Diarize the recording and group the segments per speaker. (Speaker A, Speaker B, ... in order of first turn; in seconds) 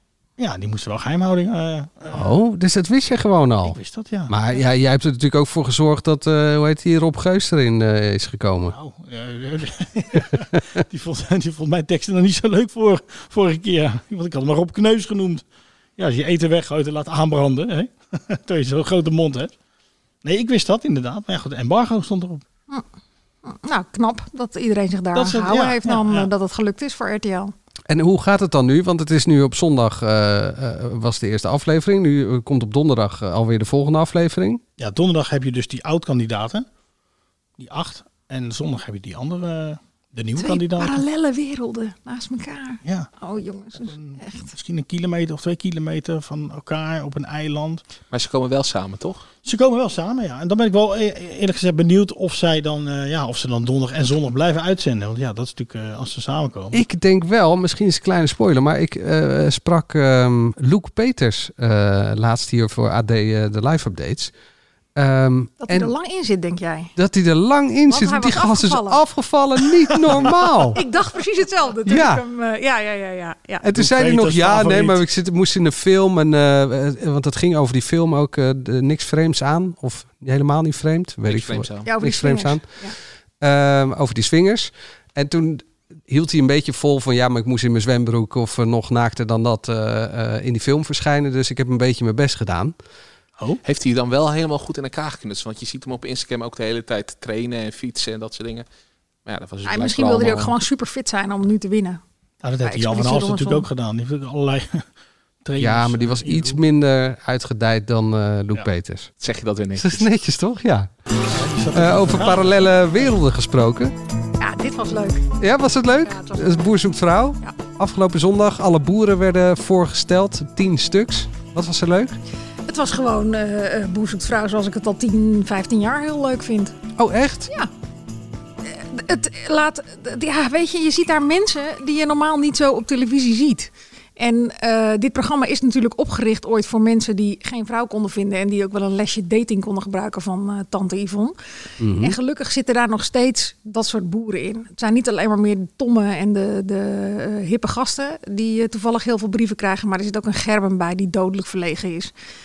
Speaker A: 0.4-2.3, 3.6-4.4, 8.7-15.4, 16.0-19.5, 20.2-22.4, 25.1-26.3, 34.8-36.7, 37.6-41.0, 43.8-47.8, 49.4-56.8, 73.7-75.0, 102.4-104.8, 105.4-106.6, 111.2-112.7
Speaker B: 2.1-8.8, 27.9-34.6, 56.7-64.3, 65.0-65.9, 67.0-70.8, 71.9-72.2, 73.6-82.7, 83.4-92.7, 105.6-109.1, 109.8-110.9, 111.7-113.9, 115.4-122.2, 127.0-127.5, 141.8-142.2
Speaker C: 23.4-27.5, 40.4-44.5, 65.6-66.9, 67.9-69.0, 70.7-73.7, 81.8-83.0, 99.7-102.0, 102.6-103.7, 114.4-115.3, 116.0-116.6, 122.7-126.8, 128.6-141.3, 142.0-152.1
Speaker D: 48.1-49.3, 81.3-81.9, 93.6-98.7, 99.3-100.6, 109.2-110.1